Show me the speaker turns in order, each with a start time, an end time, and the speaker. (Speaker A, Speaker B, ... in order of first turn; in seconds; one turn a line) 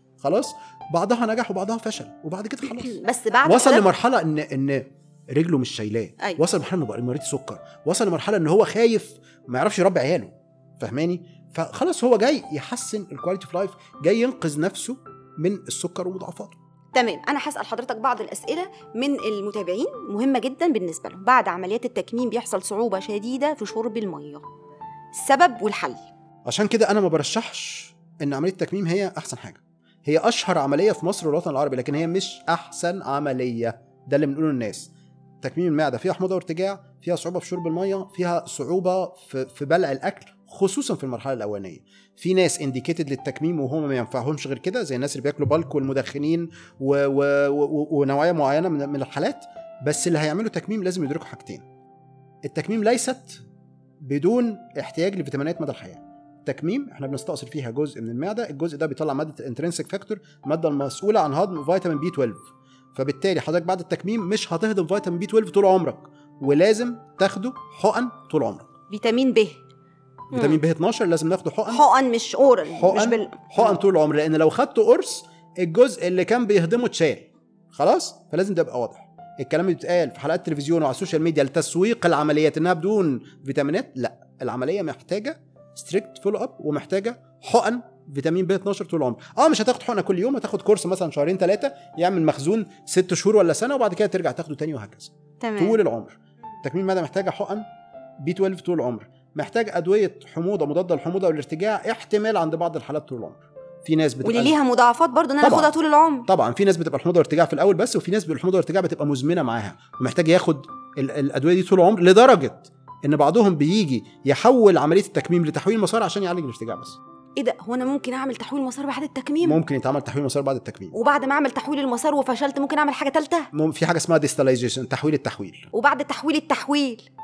Speaker A: 0.2-16.6
Speaker B: 2.6-3.9
Speaker B: 16.9-24.4
Speaker B: 25.1-26.0
Speaker A: 26.4-34.9
Speaker A: 35.4-51.6
Speaker A: 52.4-53.4
Speaker A: 54.0-68.7
Speaker B: 68.9-69.5
Speaker B: 70.3-70.6
Speaker A: 70.3-71.8
Speaker B: 71.7-73.8
Speaker A: 72.7-97.6
Speaker B: 95.4-95.8
Speaker A: 98.2-104.5
Speaker B: 104.2-106.3
Speaker A: 105.4-105.7
Speaker A: 106.3-117.0
Speaker B: 117.4-119.6
Speaker A: 119.4-120.9
Speaker B: 120.9-123.5
Speaker A: 123.5-125.7
Speaker B: 125.7-127.0